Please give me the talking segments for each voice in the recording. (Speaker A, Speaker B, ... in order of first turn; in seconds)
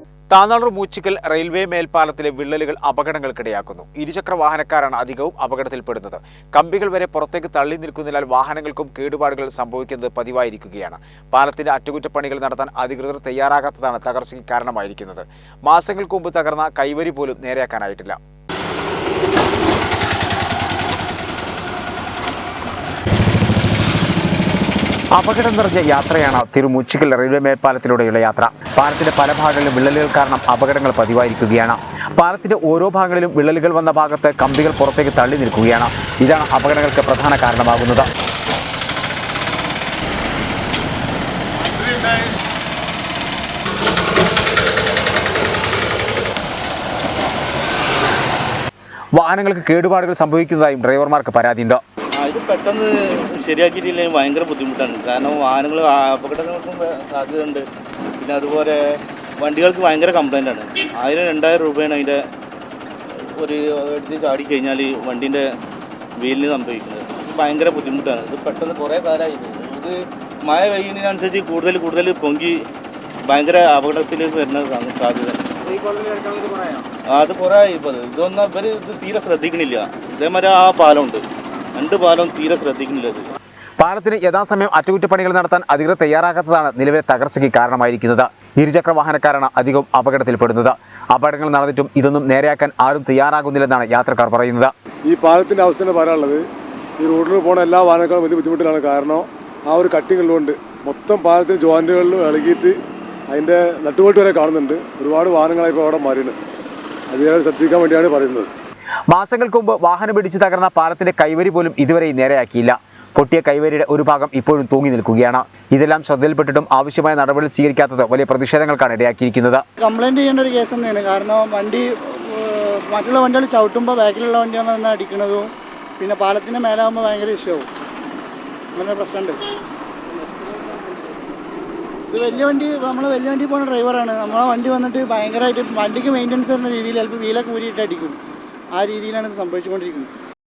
Speaker A: 0.3-18.2, 25.1-38.1, 49.1-51.8, 83.8-94.7, 109.1-119.6
Speaker B: 52.1-57.6, 58.2-58.8, 59.4-62.2, 63.1-65.5, 66.2-72.6, 73.3-81.2, 81.7-83.3
Speaker C: 95.1-96.4, 97.0-102.7, 103.3-106.3, 107.1-108.5
Speaker D: 119.8-127.7, 128.7-129.4, 130.2-131.2, 132.1-138.2, 138.7-140.1